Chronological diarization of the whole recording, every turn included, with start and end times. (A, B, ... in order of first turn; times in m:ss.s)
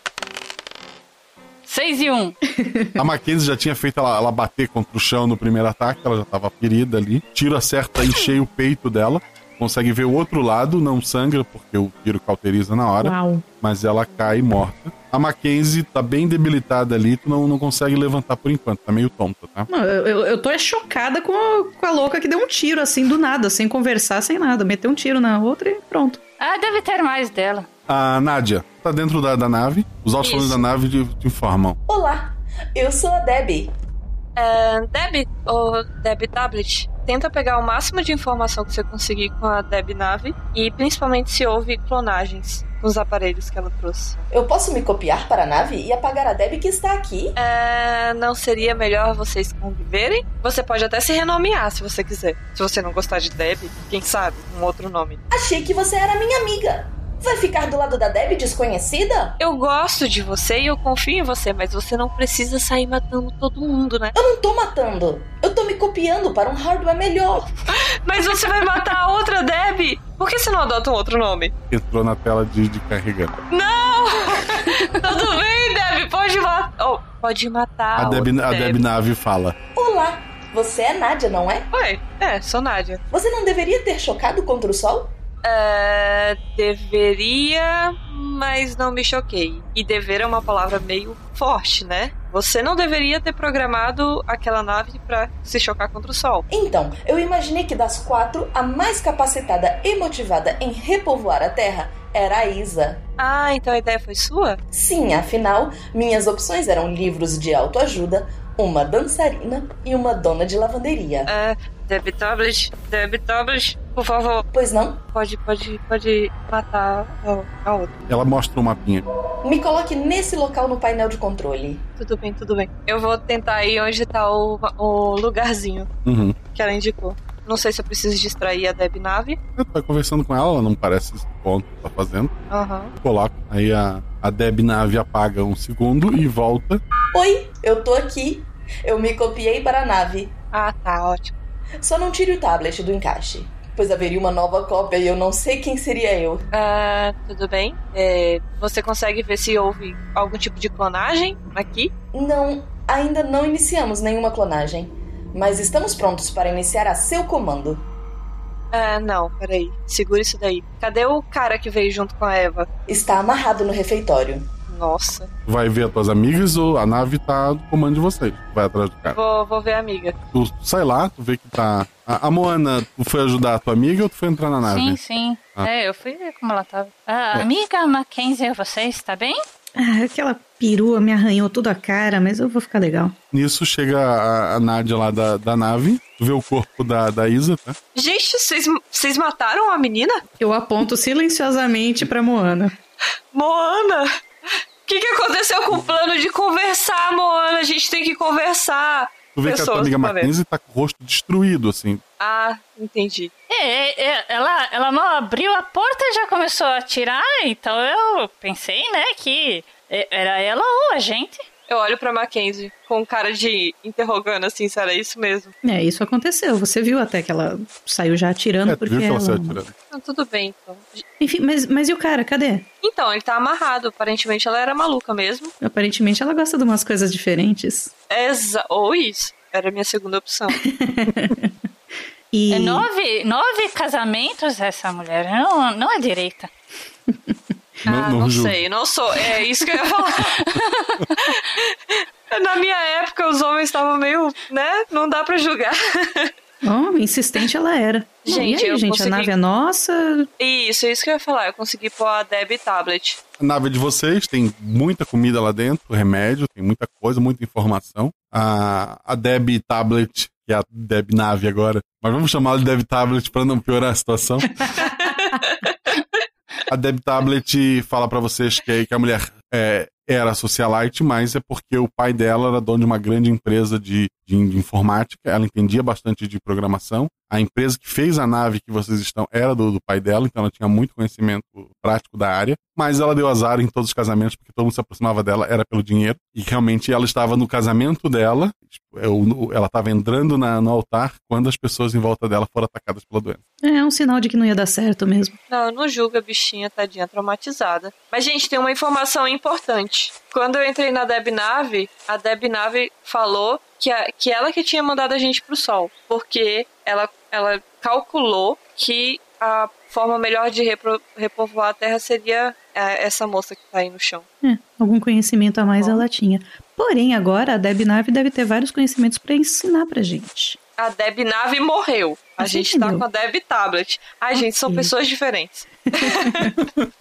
0:01.6-0:02.4 A
0:02.6-0:02.9 B
0:03.0-0:19.7 C
0:13.0-0:13.4 B
0:19.7-0:26.2 B
0:26.4-0:27.7 A
0:27.9-0:31.8 C
0:30.2-0:30.6 D
0:31.9-0:33.7 E
0:34.4-0:44.2 D
0:44.3-0:47.4 E
0:47.4-0:55.2 D
0:55.3-0:59.4 E
0:59.4-1:04.1 D
1:04.1-1:07.5 E
1:08.0-1:11.5 D
1:11.7-1:13.4 C
1:13.5-1:18.8 D
1:18.0-1:19.5 C
1:19.8-1:21.7 E
1:21.7-1:23.0 D
1:23.1-1:25.1 E
1:25.4-1:36.4 D
1:36.5-1:43.0 E
1:43.2-1:44.6 D
1:44.7-1:51.3 E
1:51.2-1:54.4 D
1:54.5-1:55.0 E
1:55.1-1:57.9 D
1:58.1-1:59.0 C
1:59.4-2:01.8 E
2:02.0-2:05.9 D
2:06.0-2:06.4 C
2:06.4-2:09.4 D
2:09.6-2:12.3 C
2:12.5-2:12.9 D
2:13.0-2:16.8 C
2:17.1-2:20.3 E
2:20.5-2:21.3 D
2:21.8-2:26.4 E
2:26.5-2:31.9 D
2:32.1-2:37.8 E
2:38.7-2:42.7 D
2:42.9-2:44.5 E
2:44.7-2:45.3 D
2:45.5-2:49.2 C
2:49.1-2:50.1 D
2:50.3-2:55.0 C
2:54.6-2:59.4 A
2:59.8-3:03.1 B
3:03.3-3:07.8 C
3:07.9-3:10.2 D
3:10.4-3:12.7 B
3:13.3-3:14.1 D
3:14.8-3:20.3 D
3:19.4-3:22.0 C
3:22.2-3:23.3 D
3:23.5-3:31.4 A
3:31.7-3:35.5 D
3:35.6-3:39.6 B
3:38.6-3:39.7 C
3:39.9-3:41.0 D
3:41.2-3:42.6 B
3:42.8-3:45.5 D
3:45.6-3:47.9 B
3:48.1-3:50.6 D
3:50.6-3:51.5 B
3:52.3-3:52.8 B
3:52.5-3:56.5 A
3:57.8-3:58.6 C
3:57.8-4:00.4 D
4:00.5-4:01.0 A
4:01.2-4:06.3 D
4:06.6-4:10.3 B
4:08.2-4:09.3 D
4:10.4-4:13.2 D
4:13.4-4:24.6 C
4:24.8-4:25.6 D
4:26.7-4:53.4 C
4:53.6-4:55.4 B
4:55.5-5:14.2 D
5:14.4-5:20.6 B
5:15.8-5:16.0 D
5:20.8-5:26.4 D
5:22.4-5:23.0 B
5:26.0-5:26.6 B